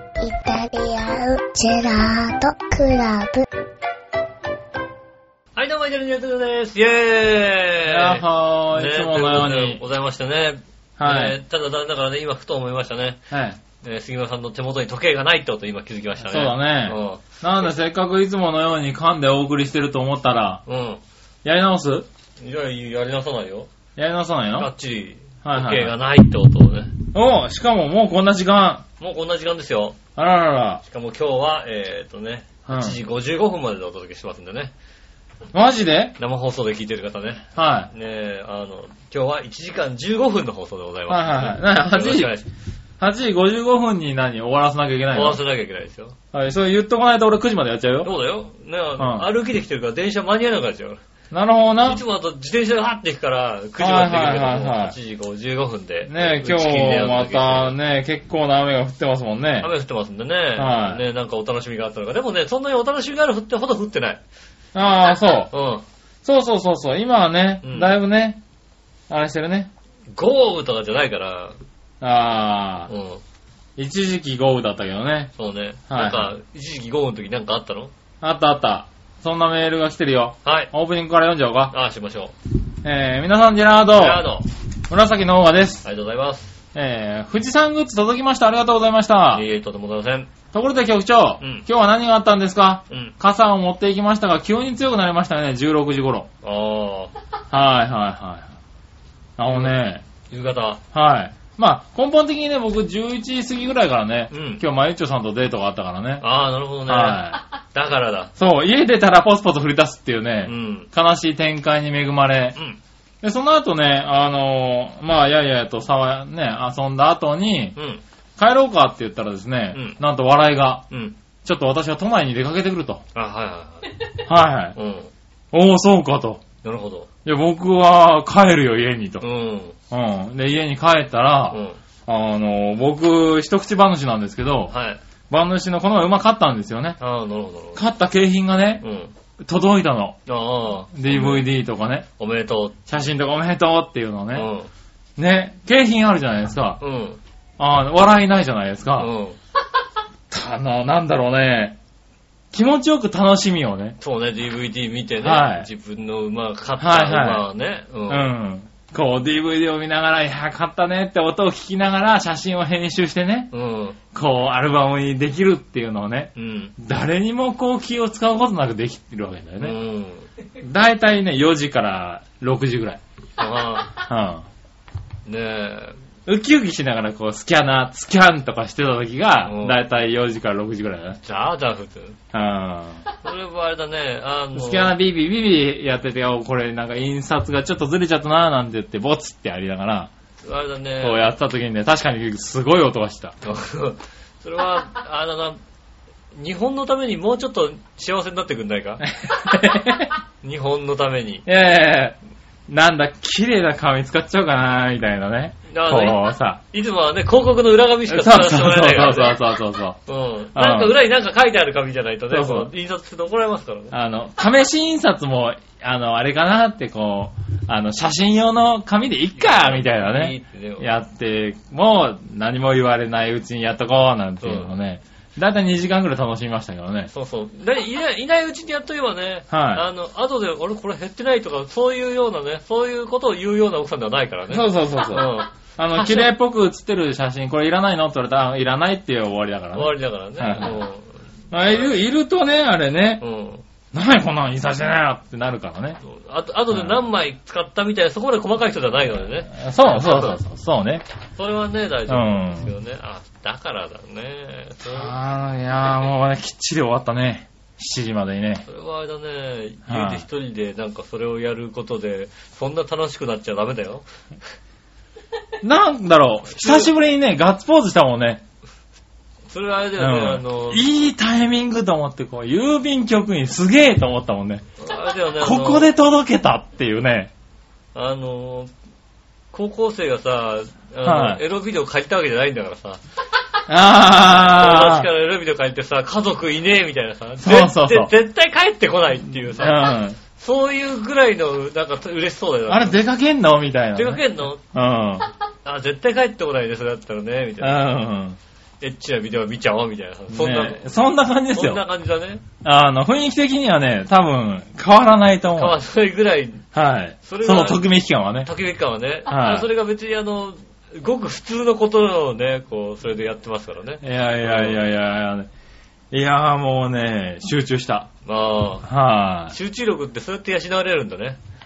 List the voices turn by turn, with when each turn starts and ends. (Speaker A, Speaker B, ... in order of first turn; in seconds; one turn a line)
Speaker A: 0.2-3.5
Speaker B: 5.5-13.2
Speaker C: 7.8-9.8
Speaker C: 11.0-11.4
Speaker C: 13.3-13.6
Speaker B: 13.8-17.2
Speaker C: 16.2-20.6
Speaker B: 20.6-21.0
Speaker C: 21.4-22.1
Speaker B: 22.4-23.7
Speaker C: 24.0-24.7
Speaker B: 24.6-26.9
Speaker C: 25.4-25.9
Speaker C: 27.1-28.8
Speaker B: 29.0-30.0
Speaker C: 30.1-30.8
Speaker B: 30.8-34.7
Speaker C: 32.7-33.0
Speaker C: 35.5-36.2
Speaker B: 36.2-42.5
Speaker C: 37.5-37.9
Speaker C: 41.1-42.3
Speaker C: 43.0-45.4
Speaker B: 45.1-46.2
Speaker C: 46.3-48.1
Speaker B: 48.0-51.0
Speaker C: 49.0-49.3
Speaker C: 51.3-52.0
Speaker B: 51.8-57.7
Speaker C: 53.8-55.0
Speaker C: 56.0-59.7
Speaker B: 59.6-64.2
Speaker C: 60.6-61.0
Speaker C: 64.7-65.5
Speaker B: 65.5-65.8
Speaker C: 66.2-68.4
Speaker B: 67.6-67.9
Speaker C: 69.1-69.7
Speaker B: 70.1-71.6
Speaker C: 72.0-72.9
Speaker B: 72.9-73.2
Speaker C: 73.8-75.3
Speaker B: 75.4-77.9
Speaker C: 75.9-76.3
Speaker C: 78.2-81.7
Speaker B: 80.5-80.7
Speaker B: 81.7-82.3
Speaker C: 82.8-84.3
Speaker B: 83.9-84.5
Speaker C: 84.9-85.8
Speaker B: 85.8-86.5
Speaker C: 86.7-89.5
Speaker B: 89.3-90.3
Speaker C: 90.5-96.3
Speaker B: 91.4-91.7
Speaker B: 96.4-97.1
Speaker C: 97.5-98.5
Speaker C: 99.4-100.0
Speaker B: 100.3-100.8
Speaker C: 100.9-106.2
Speaker B: 104.3-104.6
Speaker B: 106.2-108.3
Speaker C: 106.9-107.4
Speaker C: 108.4-112.6
Speaker B: 110.5-110.9
Speaker C: 113.2-117.8
Speaker B: 117.8-118.0
Speaker C: 118.4-120.9
Speaker B: 119.7-120.0
Speaker B: 120.9-121.1
Speaker C: 121.4-123.0
Speaker B: 123.1-123.9
Speaker C: 124.2-124.8
Speaker B: 124.8-125.1
Speaker C: 125.5-126.4
Speaker B: 126.6-127.1
Speaker C: 127.2-129.2
Speaker B: 129.2-129.8
Speaker C: 129.9-134.7
Speaker B: 131.5-131.8
Speaker B: 134.7-135.0
Speaker C: 135.3-137.0
Speaker B: 137.0-137.8
Speaker C: 137.8-138.8
Speaker B: 138.8-139.1
Speaker C: 139.4-140.2
Speaker B: 140.3-141.5
Speaker C: 140.9-142.1
Speaker B: 142.2-142.8
Speaker C: 142.9-144.5
Speaker B: 144.3-144.7
Speaker C: 145.2-146.8
Speaker B: 146.8-147.2
Speaker C: 147.6-149.1
Speaker B: 149.0-149.4
Speaker C: 150.3-151.8
Speaker C: 152.5-154.0
Speaker B: 154.0-158.3
Speaker C: 155.2-155.7
Speaker C: 156.8-157.4
Speaker C: 158.1-163.5
Speaker B: 163.5-164.0
Speaker C: 164.1-169.8
Speaker B: 166.3-166.8
Speaker B: 169.6-170.2
Speaker C: 170.6-173.0
Speaker B: 173.4-174.0
Speaker C: 173.9-174.5
Speaker B: 175.2-176.0
Speaker C: 176.2-181.2
Speaker B: 179.4-179.8
Speaker B: 181.2-182.2
Speaker C: 182.3-183.1
Speaker B: 183.1-185.0
Speaker C: 184.5-190.1
Speaker B: 190.4-191.3
Speaker C: 191.0-193.3
Speaker B: 193.4-195.6
Speaker B: 196.3-199.1
Speaker C: 199.2-200.1
Speaker B: 200.4-201.4
Speaker C: 201.5-206.6
Speaker B: 205.7-209.4
Speaker C: 208.1-210.0
Speaker B: 210.1-213.9
Speaker C: 210.6-211.0
Speaker C: 212.3-212.7
Speaker C: 213.9-227.1
Speaker B: 219.3-220.9
Speaker B: 224.4-224.7
Speaker B: 227.1-236.3
Speaker C: 229.5-229.8
Speaker C: 234.5-240.8
Speaker B: 239.7-241.2
Speaker C: 241.5-243.2
Speaker B: 241.7-241.9
Speaker B: 243.2-243.6
Speaker C: 243.9-246.0
Speaker B: 246.0-250.4
Speaker C: 246.7-247.0
Speaker C: 249.5-251.1
Speaker B: 251.4-255.1
Speaker C: 252.1-252.7
Speaker C: 254.9-258.6
Speaker B: 258.6-264.1
Speaker C: 259.9-260.2
Speaker C: 265.6-268.4
Speaker B: 266.5-266.9
Speaker B: 269.5-270.8
Speaker C: 270.0-274.6
Speaker B: 274.8-275.9
Speaker C: 275.4-277.3
Speaker B: 277.9-278.7
Speaker B: 279.5-283.0
Speaker C: 281.1-281.4
Speaker C: 283.7-285.1
Speaker B: 284.4-293.0
Speaker C: 287.4-288.1
Speaker C: 289.4-290.2
Speaker C: 292.7-295.3
Speaker B: 293.9-294.6
Speaker B: 295.6-297.9
Speaker C: 297.6-298.4
Speaker B: 298.8-300.9
Speaker C: 300.3-301.8
Speaker B: 301.5-302.4
Speaker C: 302.6-305.8
Speaker B: 305.5-306.6
Speaker C: 306.7-308.5
Speaker B: 307.2-307.8
Speaker B: 308.4-314.8
Speaker C: 309.3-309.7
Speaker C: 314.0-315.5
Speaker C: 316.1-318.1
Speaker B: 318.2-318.9
Speaker C: 318.9-319.6
Speaker B: 319.5-321.4